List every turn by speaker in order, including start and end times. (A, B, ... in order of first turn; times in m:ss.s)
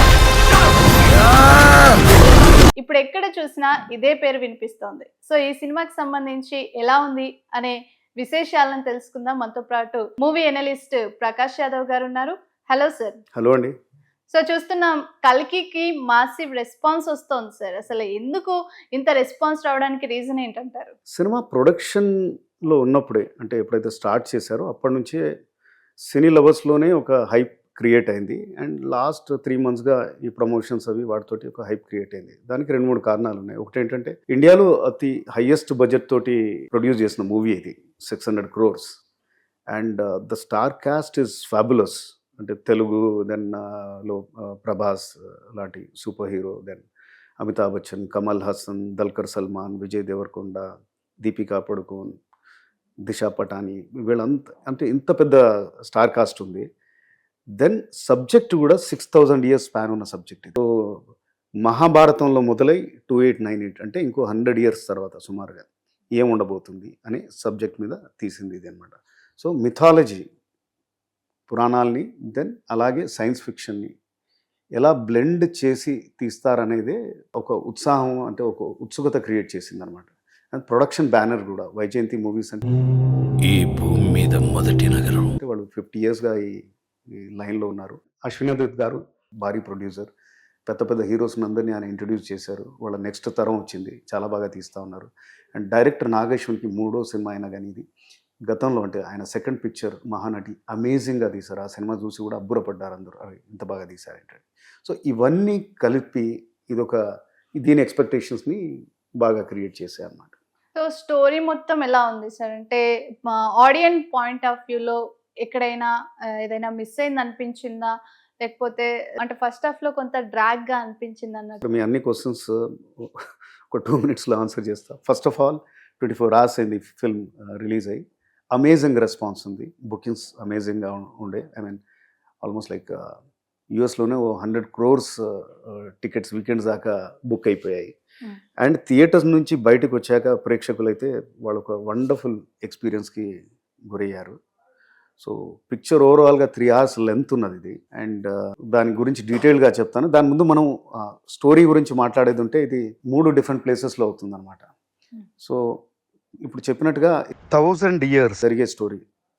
0:02.8-0:13.2 A
0:13.3-0:13.7 B
0:14.3-0:20.9 A
0:21.1-0:22.1 B
0:22.7-0:25.2 B
0:26.0-0:38.9 B
0:39.7-0:46.8 B
0:47.4-0:50.6 B
0:51.2-0:52.2 B
0:53.0-0:56.6 B
0:57.6-1:01.0 B
1:01.6-1:10.3 B
1:11.5-1:13.9 B
1:14.8-1:22.6 B
1:23.4-1:25.4 C
1:25.4-1:30.1 B
1:30.7-1:37.9 B
1:38.5-1:47.0 B
1:47.6-1:48.6 B
1:49.2-1:50.3 B
1:50.8-1:55.9 A
1:56.4-2:01.6 A
2:01.6-2:03.2 B
2:03.7-2:08.0 B
2:08.5-2:11.8 B
2:12.4-2:13.1 B
2:13.8-2:17.9 B
2:18.6-2:23.3 B
2:23.9-2:24.4 B
2:25.2-2:34.7 B
2:35.4-2:35.8 B
2:36.4-2:39.0 B